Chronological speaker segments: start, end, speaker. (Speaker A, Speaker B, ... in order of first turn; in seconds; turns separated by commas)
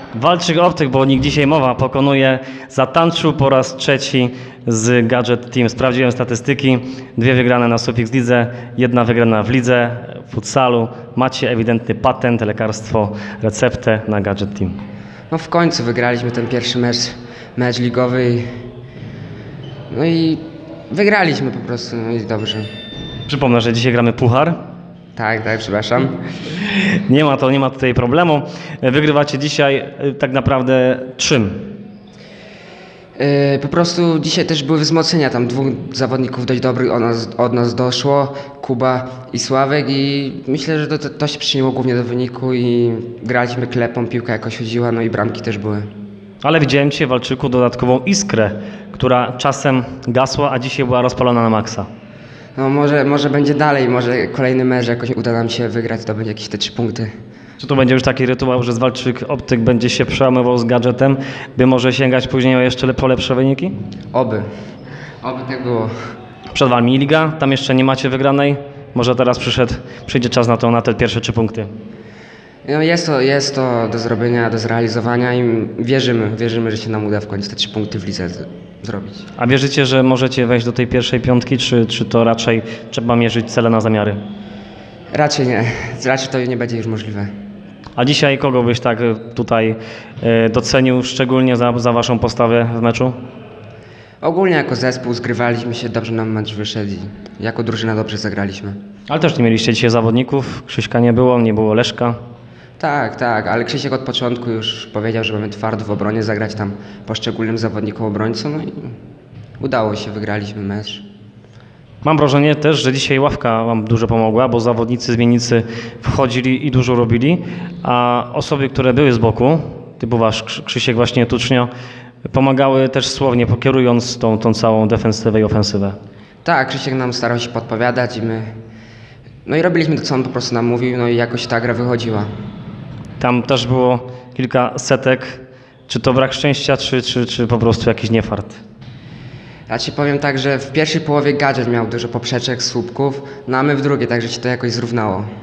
Speaker A: 0.1-14.8, Speaker B: 15.3-18.5, Speaker B: 19.9-22.7, Speaker A: 23.3-24.6, Speaker B: 25.2-26.2, Speaker A: 26.6-31.7, Speaker B: 33.2-45.9, Speaker A: 46.4-51.9, Speaker B: 52.6-57.1, Speaker A: 57.6-63.7, Speaker B: 64.1-64.5, Speaker B: 65.2-65.9, Speaker A: 66.5-71.7, Speaker B: 72.7-79.3, Speaker A: 79.4-84.2, Speaker B: 85.1-87.3, Speaker A: 88.0-93.2, Speaker B: 94.2-98.8, Speaker A: 99.1-102.2, Speaker B: 102.8-108.9, Speaker B: 109.6-111.0, Speaker A: 112.0-121.7, Speaker A: 122.3-126.0, Speaker B: 126.4-128.5, Speaker B: 129.5-132.3, Speaker A: 133.2-138.6, Speaker B: 139.7-145.3